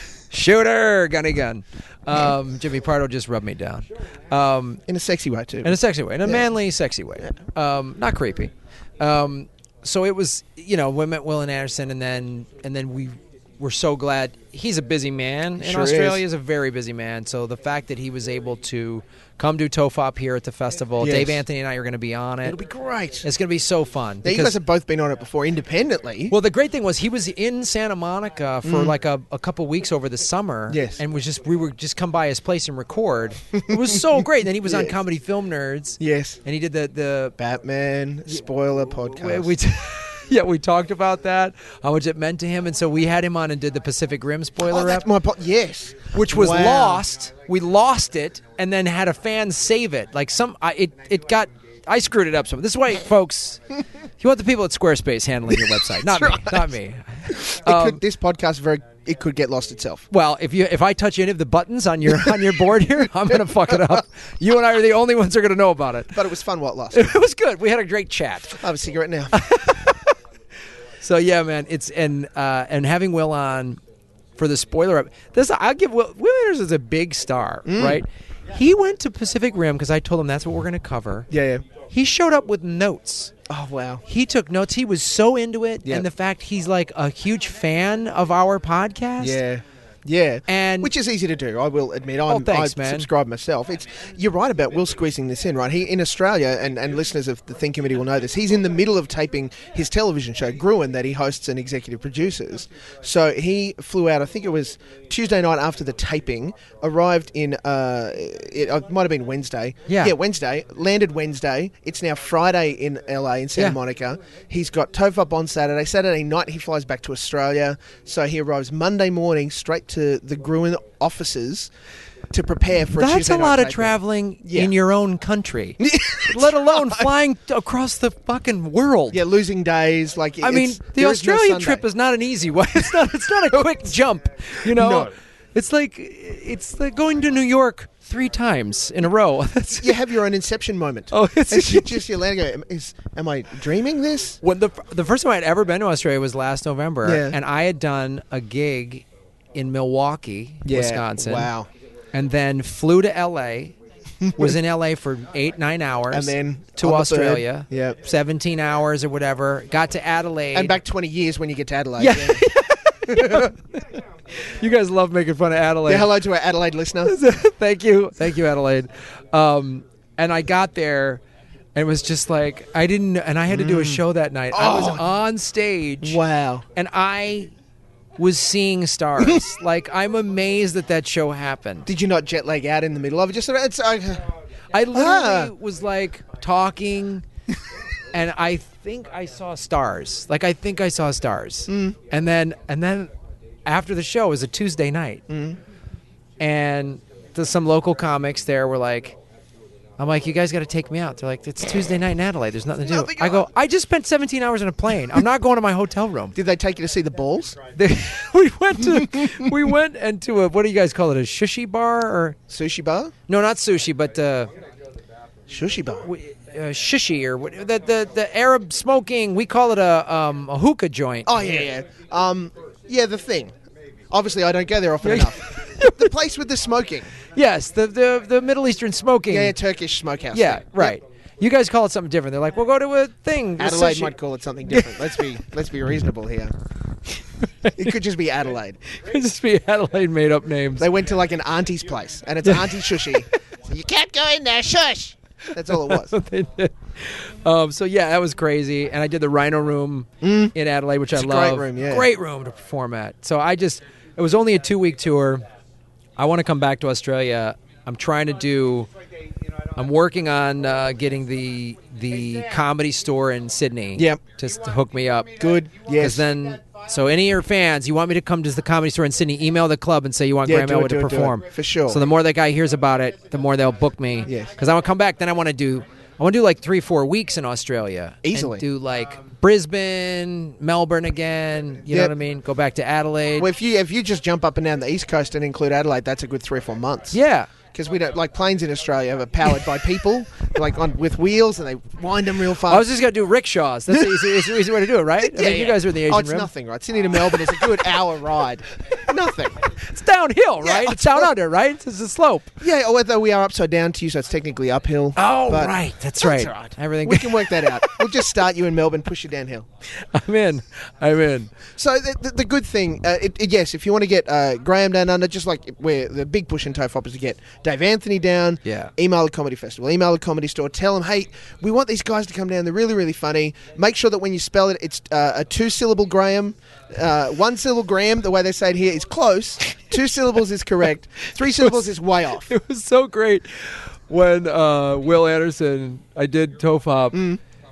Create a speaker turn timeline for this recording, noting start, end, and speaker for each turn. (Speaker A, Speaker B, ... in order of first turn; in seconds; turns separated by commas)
Speaker A: 0.3-4.8, Speaker B: 4.9-6.5, Speaker A: 5.6-22.6, Speaker B: 15.6-16.2, Speaker B: 21.0-21.4, Speaker B: 22.4-23.2, Speaker A: 23.2-24.6, Speaker B: 24.2-26.3, Speaker A: 26.3-37.4, Speaker B: 28.6-28.9, Speaker B: 30.7-31.0, Speaker B: 33.7-35.0, Speaker B: 36.0-36.4, Speaker B: 37.4-39.5, Speaker A: 39.1-45.1, Speaker B: 44.6-47.0, Speaker A: 46.1-58.0, Speaker B: 56.0-56.7, Speaker B: 57.3-60.1, Speaker A: 60.1-66.2, Speaker B: 66.1-67.1, Speaker A: 66.9-68.6, Speaker B: 68.5-69.4, Speaker A: 69.3-70.1, Speaker A: 71.0-73.8, Speaker A: 74.4-81.3, Speaker B: 77.7-78.0, Speaker B: 81.3-81.6, Speaker A: 81.9-83.3, Speaker B: 83.5-84.0, Speaker A: 84.0-89.4, Speaker B: 89.2-121.7, Speaker A: 90.5-90.9, Speaker A: 92.3-93.1, Speaker A: 109.9-110.1, Speaker B: 122.3-124.7, Speaker A: 122.9-129.2, Speaker B: 125.8-127.1, Speaker B: 129.1-131.8, Speaker A: 130.4-140.0, Speaker B: 134.6-135.1, Speaker B: 139.8-144.4, Speaker A: 141.1-142.0, Speaker A: 144.4-151.5, Speaker B: 147.0-147.4, Speaker B: 150.6-151.7, Speaker A: 152.1-153.7, Speaker B: 154.2-154.5, Speaker A: 154.3-160.8, Speaker B: 156.1-158.0, Speaker B: 160.5-162.4, Speaker A: 162.0-166.1, Speaker B: 163.1-163.5, Speaker B: 165.8-167.1, Speaker A: 167.0-171.2, Speaker A: 171.8-176.2, Speaker B: 173.5-175.2, Speaker B: 176.0-176.6, Speaker A: 176.7-177.5, Speaker A: 178.2-181.9, Speaker B: 181.8-184.2, Speaker A: 184.7-187.2, Speaker B: 184.9-185.5, Speaker A: 188.1-193.1, Speaker B: 191.7-192.0, Speaker A: 193.7-195.2, Speaker B: 195.3-195.6, Speaker A: 196.4-199.2, Speaker A: 200.0-206.3, Speaker B: 202.9-203.5, Speaker B: 206.3-207.6, Speaker A: 207.7-212.4, Speaker B: 209.0-209.5, Speaker B: 212.5-213.1, Speaker A: 213.3-214.5, Speaker B: 215.5-216.1, Speaker A: 216.0-221.7, Speaker B: 221.2-223.5, Speaker B: 224.1-227.1, Speaker A: 225.0-226.1, Speaker A: 227.3-229.6, Speaker B: 229.3-231.0, Speaker A: 230.3-234.2, Speaker B: 233.6-236.5, Speaker A: 234.7-235.1, Speaker B: 237.8-238.8, Speaker A: 238.9-240.9, Speaker B: 240.8-246.2, Speaker A: 242.4-243.3, Speaker A: 245.7-255.4, Speaker B: 250.2-250.5, Speaker B: 251.1-252.1, Speaker A: 256.2-258.9, Speaker A: 259.7-265.4, Speaker B: 263.9-264.2, Speaker B: 265.4-266.3, Speaker A: 265.9-283.5, Speaker B: 270.4-272.0, Speaker B: 274.2-274.5, Speaker B: 278.2-278.6, Speaker B: 281.9-282.1, Speaker B: 283.4-287.2, Speaker A: 287.1-287.5, Speaker B: 287.7-292.9, Speaker A: 292.6-296.5, Speaker B: 293.9-294.5, Speaker B: 295.2-299.6, Speaker A: 299.7-302.5, Speaker B: 300.6-301.3, Speaker B: 302.6-309.6, Speaker A: 305.1-308.2, Speaker A: 309.9-311.5, Speaker B: 311.8-332.5, Speaker A: 318.6-318.9, Speaker A: 331.3-331.8, Speaker A: 332.4-337.4, Speaker B: 337.1-337.4